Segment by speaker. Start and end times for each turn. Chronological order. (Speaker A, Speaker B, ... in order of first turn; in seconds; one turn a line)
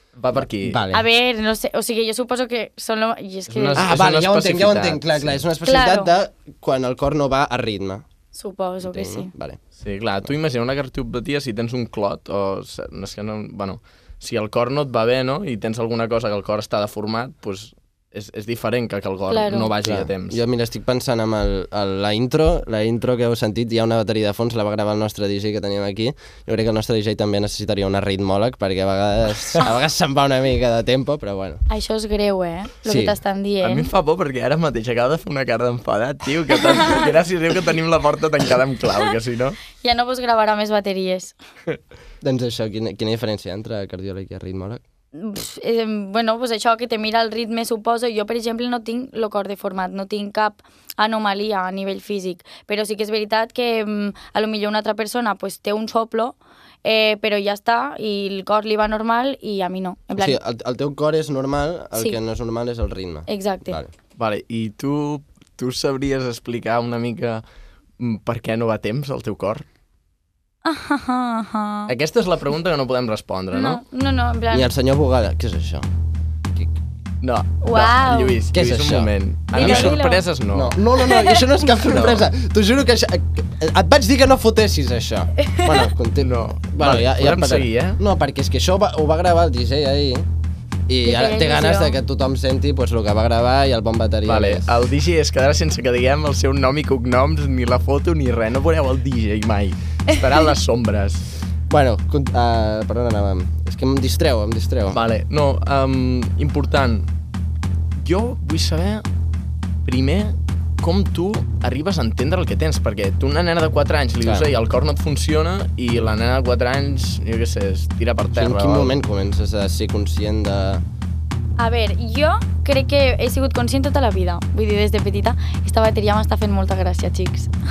Speaker A: 0.1-0.8
Speaker B: 0.3-1.0
Speaker C: 0.9-3.8
Speaker A: 3.5-5.4
Speaker B: 3.8-8.0
Speaker C: 5.6-6.1
Speaker C: 8.3-9.3
Speaker B: 8.8-9.6
Speaker A: 9.8-20.4
Speaker C: 19.3-19.7
Speaker B: 19.8-31.6
Speaker C: 31.7-33.9
Speaker B: 32.8-33.2
Speaker A: 33.6-39.6
Speaker C: 39.8-41.3
Speaker B: 42.2-44.8
Speaker C: 45.1-60.4
Speaker B: 60.1-63.9
Speaker C: 63.3-63.8
Speaker A: 64.2-67.4
Speaker A: 68.0-69.6
Speaker C: 70.6-71.9
Speaker A: 71.9-73.8
Speaker C: 73.5-74.7
Speaker B: 74.5-75.9
Speaker A: 77.2-80.8
Speaker C: 77.6-78.4
Speaker B: 78.5-80.0
Speaker C: 79.5-80.2
Speaker B: 80.5-90.3
Speaker C: 81.0-81.5
Speaker A: 81.9-82.2
Speaker C: 85.4-85.9
Speaker A: 86.2-88.0
Speaker B: 90.9-94.7
Speaker C: 91.0-92.0
Speaker A: 94.2-101.3
Speaker B: 101.7-105.0
Speaker A: 104.9-107.1
Speaker A: 108.0-109.0
Speaker A: 109.8-119.0
Speaker B: 114.2-114.5
Speaker B: 118.3-120.8
Speaker C: 121.6-127.5